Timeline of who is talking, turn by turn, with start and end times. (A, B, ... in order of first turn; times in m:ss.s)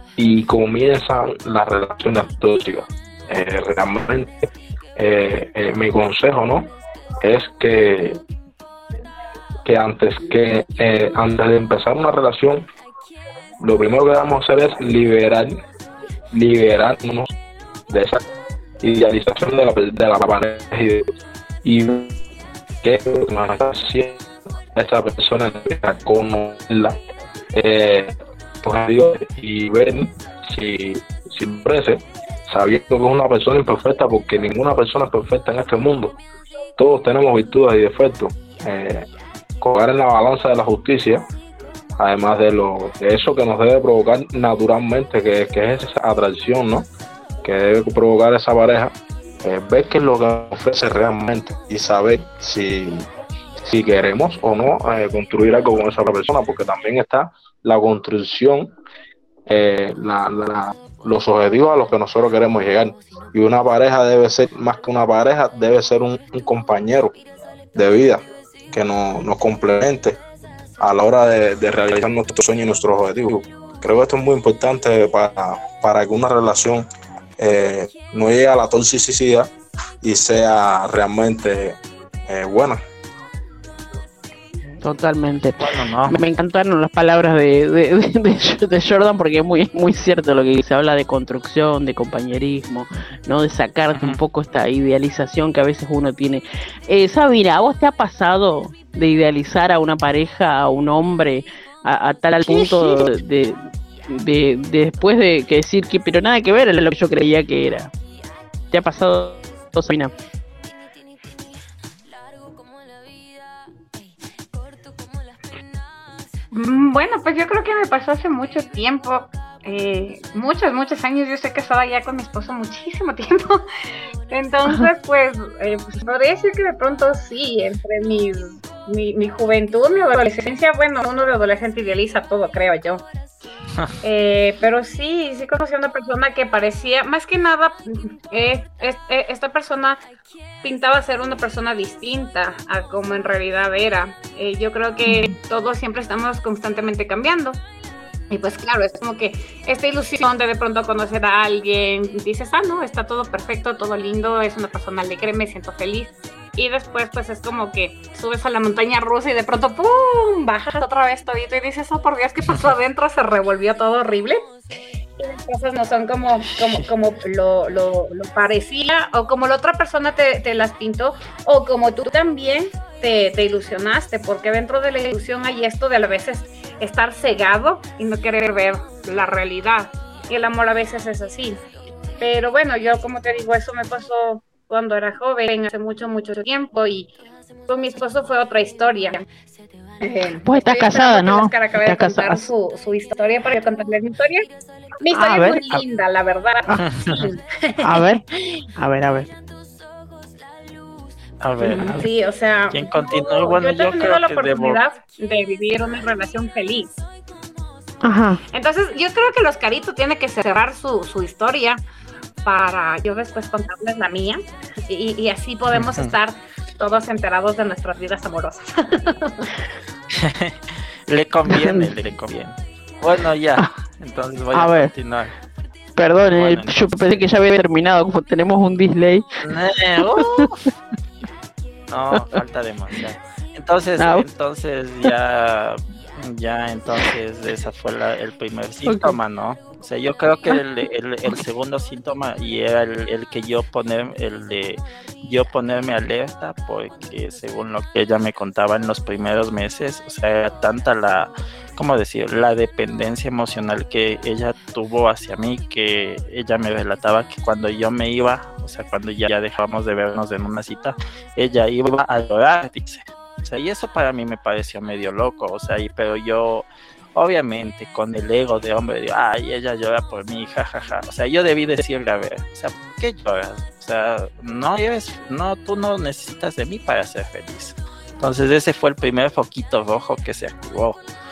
0:00.2-0:08.2 A
0:09.6-0:12.7 A
0:13.6-0:15.6 A
0:16.3-0:17.3 A
0:17.9-0:18.2 A
0:18.8-0:21.1 A
0:21.6-0:22.2 A
0:22.8-0:27.0 A
0:27.5-0:36.2 A
0:36.8-0:39.1 A
0:39.6-0:41.2 A
0:42.0-0:46.9 A
0:47.4-0:53.1 A
0:53.6-0:58.7 A
0:59.5-1:07.2 A
1:07.8-1:10.2 A
1:10.8-1:22.8 A
1:24.8-1:47.9 B
1:25.6-1:26.2 C
1:48.7-1:50.1 B
1:56.5-2:03.7 D
2:04.3-2:13.0 D
2:14.0-2:20.0 D
2:20.6-2:27.6 D
2:25.1-2:25.3 B
2:28.3-2:44.4 D
2:45.2-3:01.6 D
3:02.2-3:07.1 D
3:07.7-3:09.2 D
3:10.0-3:14.5 D
3:10.4-3:12.4 B
3:15.0-3:18.6 D
3:15.2-3:15.8 B
3:16.8-3:17.3 C
3:17.8-3:18.2 B
3:18.8-3:19.3 B
3:21.4-3:22.1 C
3:21.6-3:26.9 D
3:22.7-3:24.8 C
3:28.0-3:28.4 B
3:28.5-3:31.8 D
3:32.4-3:39.5 D
3:35.7-3:36.1 C
3:40.1-3:45.3 C
3:41.5-3:41.9 B
3:44.5-3:44.9 B
3:46.0-3:49.3 B
3:46.3-3:47.2 C
3:49.4-3:50.7 C
3:50.1-3:50.5 B
3:51.9-4:41.0 C
3:54.0-3:54.2 B
3:58.9-3:59.2 B